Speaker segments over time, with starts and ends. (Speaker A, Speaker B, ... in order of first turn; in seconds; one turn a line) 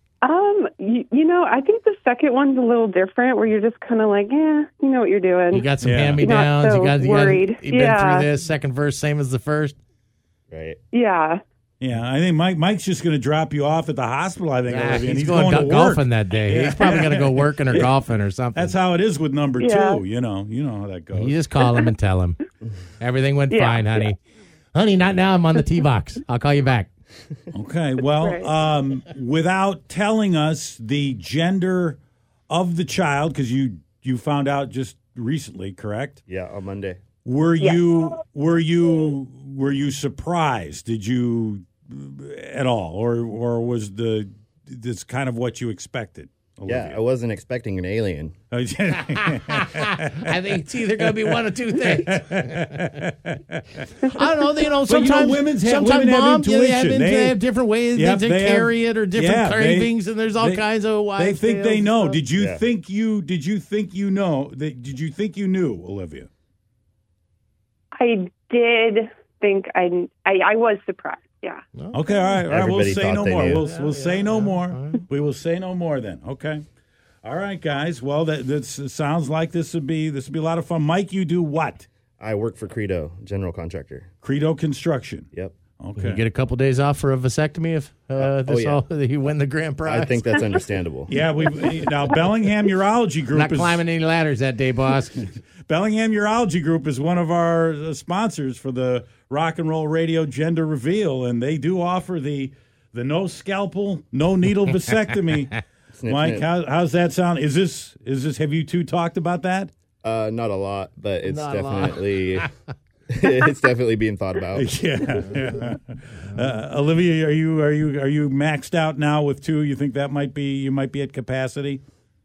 Speaker A: 0.2-8.3
Speaker B: 5.5-9.8
Speaker C: 5.8-6.3
Speaker D: 10.5-10.8
Speaker A: 10.9-11.4
Speaker C: 11.8-17.9
Speaker B: 14.7-18.7
Speaker C: 18.5-21.3
Speaker A: 19.6-20.0
Speaker B: 21.1-22.4
Speaker B: 23.0-24.2
Speaker A: 23.5-24.1
Speaker B: 24.7-26.9
Speaker C: 27.5-32.0
Speaker A: 28.1-28.5
Speaker C: 32.5-36.2
Speaker D: 36.3-37.0
Speaker C: 37.2-47.0
Speaker D: 46.6-48.3
Speaker C: 48.5-50.4
Speaker B: 49.1-52.9
Speaker C: 51.0-54.2
Speaker B: 54.0-62.2
Speaker C: 54.8-57.4
Speaker C: 57.9-60.6
Speaker C: 61.2-66.3
Speaker D: 62.3-62.6
Speaker A: 67.9-71.6
Speaker C: 71.9-76.6
Speaker D: 72.5-73.6
Speaker B: 73.5-75.0
Speaker C: 77.2-81.9
Speaker D: 82.2-84.1
Speaker C: 84.2-86.2
Speaker B: 86.0-90.5
Speaker D: 88.2-88.8
Speaker D: 89.8-91.2
Speaker C: 91.1-93.8
Speaker B: 93.3-95.2
Speaker C: 95.2-109.7
Speaker D: 105.9-106.5
Speaker D: 110.0-112.5
Speaker B: 111.2-112.5
Speaker D: 113.1-115.3
Speaker C: 114.5-121.8